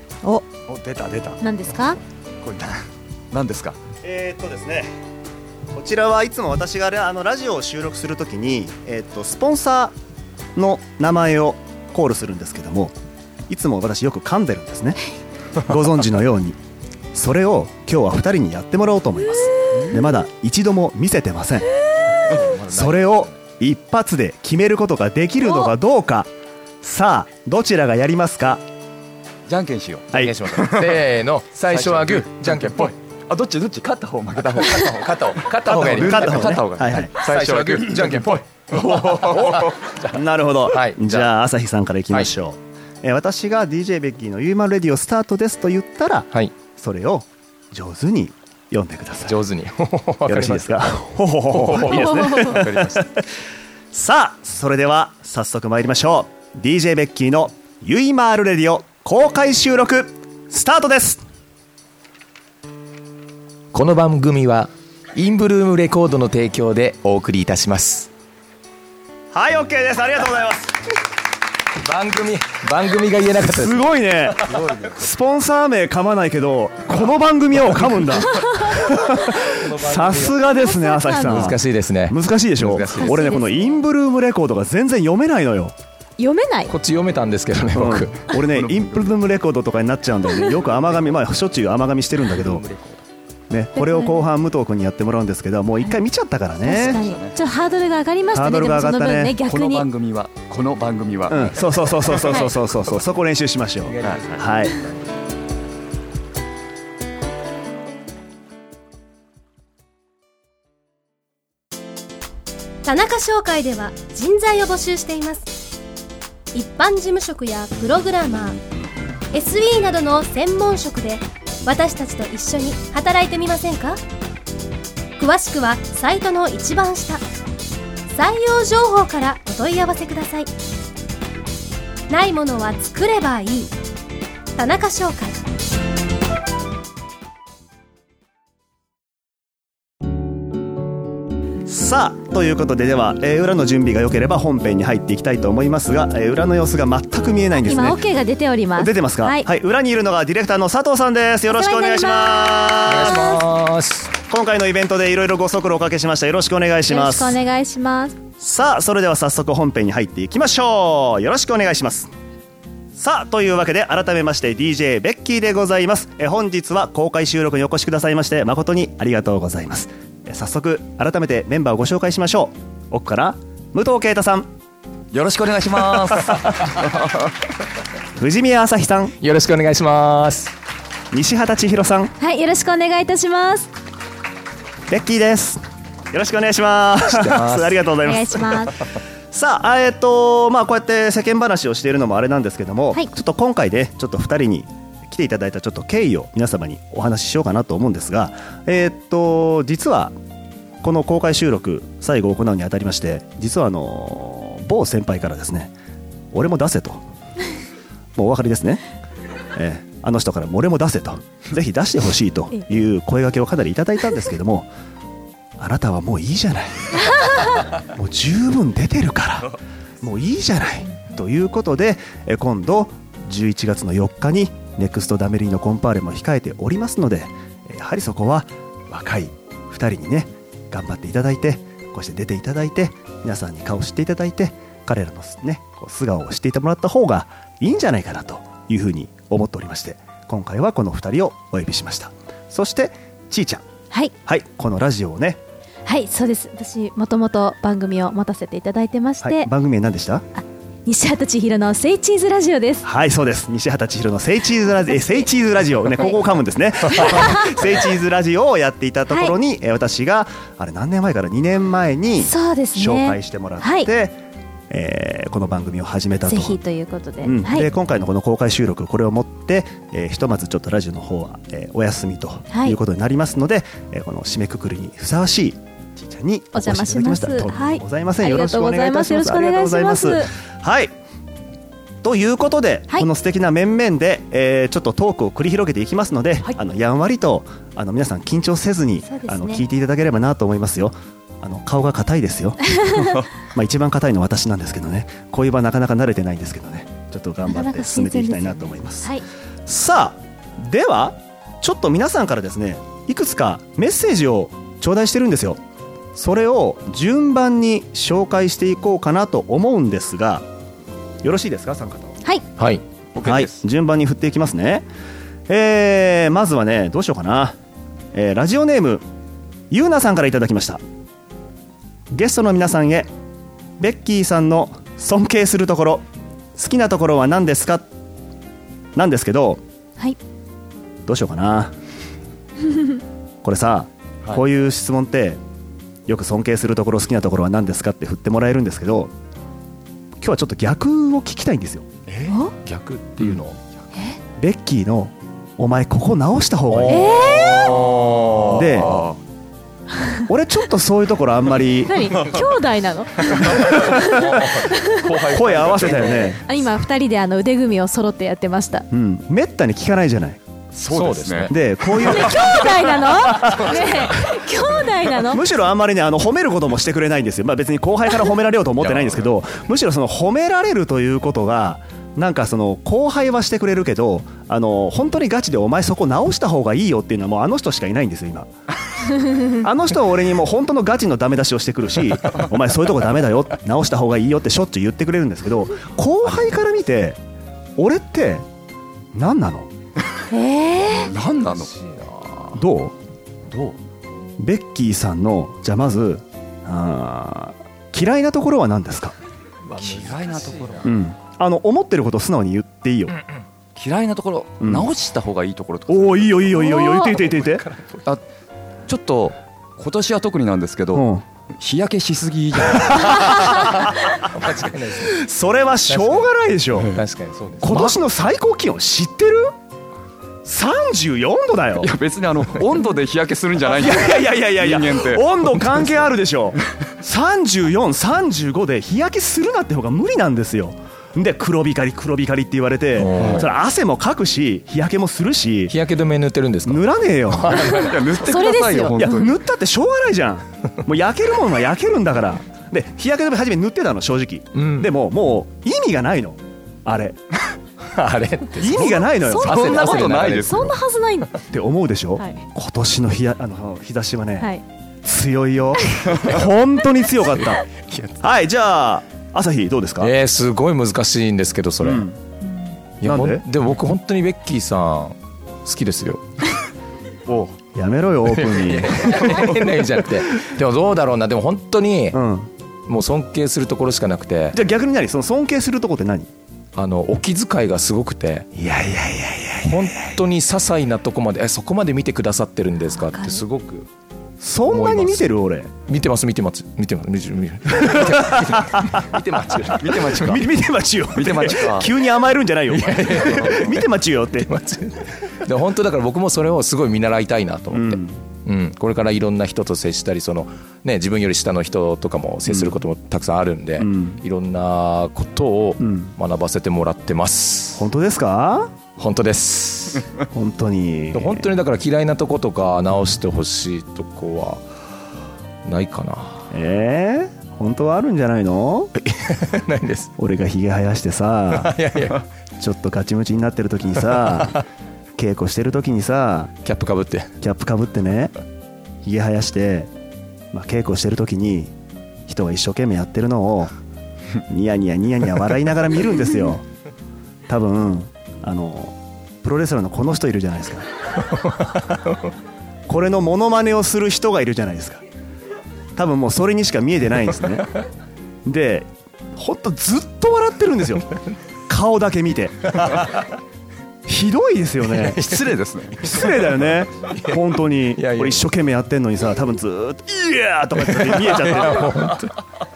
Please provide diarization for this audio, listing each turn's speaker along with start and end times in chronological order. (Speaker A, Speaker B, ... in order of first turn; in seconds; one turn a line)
Speaker A: 0.7-1.4
Speaker B: 1.4-2.0
Speaker A: 2.4-3.8
Speaker C: 4.0-4.9
Speaker C: 5.7-9.9
Speaker C: 10.6-12.9
Speaker C: 13.5-15.0
Speaker C: 15.6-16.6
Speaker C: 17.1-21.7
Speaker D: 22.4-23.2
Speaker C: 22.5-26.3
Speaker C: 26.8-28.6
Speaker A: 29.5-31.0
Speaker D: 30.1-33.0
Speaker A: 31.7-39.9
Speaker D: 34.6-40.1
Speaker C: 35.7-37.1
Speaker C: 39.6-49.4
Speaker D: 40.7-41.3
Speaker D: 49.3-50.8
Speaker C: 50.2-53.2
Speaker D: 51.5-52.1
Speaker B: 51.9-52.6
Speaker A: 52.1-53.0
Speaker C: 53.9-61.2
Speaker D: 63.7-68.1
Speaker C: 69.3-70.7
Speaker D: 71.8-74.6
Speaker C: 73.4-85.7
Speaker A: 74.5-74.9
Speaker D: 79.4-80.4
Speaker B: 80.5-81.5
Speaker D: 81.1-83.3
Speaker B: 82.9-83.8
Speaker B: 86.2-86.7
Speaker D: 86.7-88.3
Speaker C: 87.7-92.6
Speaker A: 88.3-89.1
Speaker D: 92.3-93.0
Speaker C: 93.5-97.0
Speaker B: 93.8-94.2
Speaker B: 96.6-99.9
Speaker A: 96.8-97.3
Speaker C: 98.3-99.3
Speaker A: 99.4-101.6
Speaker C: 101.3-104.8
Speaker B: 102.2-102.5
Speaker D: 103.8-104.5
Speaker E: 112.8-115.6
Speaker E: 116.5-118.6
Speaker E: 119.3-124.0
Speaker E: 125.2-127.2
Speaker E: 128.1-130.5
Speaker E: 132.1-133.7
Speaker E: 134.6-135.4
Speaker C: 141.7-148.0
Speaker B: 147.6-149.5
Speaker C: 148.8-153.2
Speaker B: 151.5-153.4
Speaker D: 152.8-154.1
Speaker C: 154.3-157.4
Speaker B: 156.9-158.2
Speaker C: 158.4-162.1
Speaker C: 162.9-174.5
Speaker A: 175.1-177.3
Speaker C: 178.2-179.1
Speaker D: 179.2-180.5
Speaker C: 181.1-182.1
Speaker B: 182.2-183.7
Speaker C: 184.9-188.7
Speaker D: 187.1-187.8
Speaker B: 188.0-188.8
Speaker C: 189.3-200.1
Speaker C: 200.8-205.7
Speaker C: 206.3-207.0
Speaker C: 208.2-208.8
Speaker C: 209.6-214.7
Speaker C: 215.6-217.1
Speaker C: 217.8-243.6
Speaker C: 244.2-245.4
Speaker B: 245.8-249.5
Speaker C: 249.2-250.2
Speaker B: 250.3-252.8
Speaker C: 252.8-264.2
Speaker B: 254.9-255.2
Speaker B: 256.9-257.4
Speaker B: 259.1-259.3
Speaker B: 262.2-263.9
Speaker C: 264.7-266.6
Speaker B: 266.2-267.7
Speaker C: 267.2-280.9
Speaker B: 272.5-272.8
Speaker B: 276.5-280.3
Speaker C: 282.0-292.8
Speaker B: 289.0-289.6
Speaker A: 292.9-293.3
Speaker C: 293.4-299.1
Speaker B: 297.4-299.2
Speaker C: 299.6-305.6
Speaker C: 306.1-310.4
Speaker C: 311.2-312.2
Speaker D: 312.6-312.8
Speaker C: 313.2-314.8
Speaker C: 315.5-317.5
Speaker C: 318.1-319.0
Speaker C: 319.7-320.8
Speaker C: 322.1-323.1
Speaker C: 323.8-326.0
Speaker C: 326.6-327.9
Speaker C: 328.9-329.6
Speaker C: 331.1-331.7
Speaker C: 333.4-335.4
Speaker C: 336.1-339.1
Speaker C: 340.2-341.9
Speaker B: 342.3-342.5
Speaker D: 342.5-343.6
Speaker C: 344.4-347.1
Speaker D: 346.7-349.1
Speaker B: 346.9-347.9
Speaker C: 348.5-349.0
Speaker A: 348.8-349.1
Speaker C: 350.3-352.1
Speaker B: 351.8-355.1
Speaker D: 353.3-356.4
Speaker C: 355.3-356.4
Speaker B: 356.2-358.9
Speaker C: 358.9-360.4
Speaker A: 360.7-361.5
Speaker D: 360.9-361.5
Speaker C: 361.5-364.2
Speaker B: 362.0-365.4
Speaker D: 363.4-363.9
Speaker C: 365.1-378.5
Speaker D: 368.8-369.2
Speaker C: 379.3-387.2
Speaker C: 387.8-388.4
Speaker C: 389.1-389.7
Speaker B: 390.3-391.1
Speaker A: 391.0-391.7
Speaker D: 391.3-392.6
Speaker C: 392.5-392.9
Speaker D: 393.5-393.7
Speaker C: 394.4-399.1
Speaker A: 399.6-400.9
Speaker D: 399.7-400.9
Speaker C: 400.8-403.2
Speaker A: 403.8-406.7
Speaker C: 404.6-404.9
Speaker C: 405.9-407.6
Speaker B: 406.6-407.1
Speaker D: 407.0-408.1
Speaker A: 408.9-411.1
Speaker C: 410.9-411.2
Speaker A: 411.6-413.5
Speaker C: 412.8-413.8
Speaker D: 413.6-415.2
Speaker C: 415.0-417.0
Speaker D: 415.8-416.3
Speaker D: 416.9-417.9
Speaker C: 417.6-419.5
Speaker C: 420.4-421.9
Speaker A: 421.8-426.1
Speaker C: 423.7-435.7
Speaker D: 432.9-433.4
Speaker A: 433.2-433.4
Speaker D: 435.7-438.1
Speaker C: 436.6-437.7
Speaker A: 437.7-439.3
Speaker B: 437.8-439.3
Speaker C: 439.0-447.2
Speaker D: 444.5-444.9
Speaker D: 447.9-450.6
Speaker C: 448.6-450.0
Speaker B: 449.1-451.4
Speaker A: 449.5-450.8
Speaker C: 451.5-454.5
Speaker B: 452.2-452.4
Speaker B: 454.4-454.6
Speaker C: 455.0-457.6
Speaker D: 457.5-458.1
Speaker C: 458.2-460.1
Speaker D: 460.0-462.0
Speaker C: 461.8-462.2
Speaker D: 463.0-466.5
Speaker C: 463.0-463.4
Speaker C: 467.3-469.6
Speaker D: 468.3-472.2
Speaker C: 472.1-472.5
Speaker D: 472.9-474.6
Speaker C: 474.5-476.3
Speaker D: 476.8-478.5
Speaker C: 478.5-480.0
Speaker D: 479.6-483.9
Speaker B: 483.1-483.4
Speaker C: 484.4-485.7
Speaker D: 484.7-485.3
Speaker D: 485.9-490.4
Speaker A: 489.8-490.4
Speaker C: 490.2-494.5
Speaker A: 491.1-491.9
Speaker D: 492.7-493.8
Speaker A: 493.1-493.6
Speaker D: 494.4-507.9
Speaker C: 497.7-498.2
Speaker C: 502.5-502.8
Speaker C: 503.8-504.2
Speaker C: 505.8-506.1
Speaker C: 507.8-508.7
Speaker D: 509.0-510.1
Speaker C: 510.3-511.5
Speaker D: 511.1-514.6
Speaker D: 515.6-516.4
Speaker C: 516.5-518.9
Speaker D: 519.0-520.1
Speaker C: 520.2-521.7
Speaker D: 521.5-522.2
Speaker C: 522.6-524.6
Speaker C: 525.1-526.5
Speaker D: 526.6-527.3
Speaker C: 527.4-528.3
Speaker C: 529.0-529.9
Speaker C: 530.5-531.7
Speaker C: 532.3-533.7
Speaker C: 534.5-536.6
Speaker C: 537.5-540.9
Speaker D: 541.3-542.2
Speaker C: 542.9-545.0
Speaker C: 546.0-547.8
Speaker C: 548.4-551.0
Speaker C: 551.7-553.1
Speaker C: 554.0-555.3
Speaker D: 554.8-555.5
Speaker A: 555.2-556.0
Speaker C: 556.0-561.9
Speaker D: 556.0-556.5
Speaker D: 557.1-558.5
Speaker D: 560.9-562.4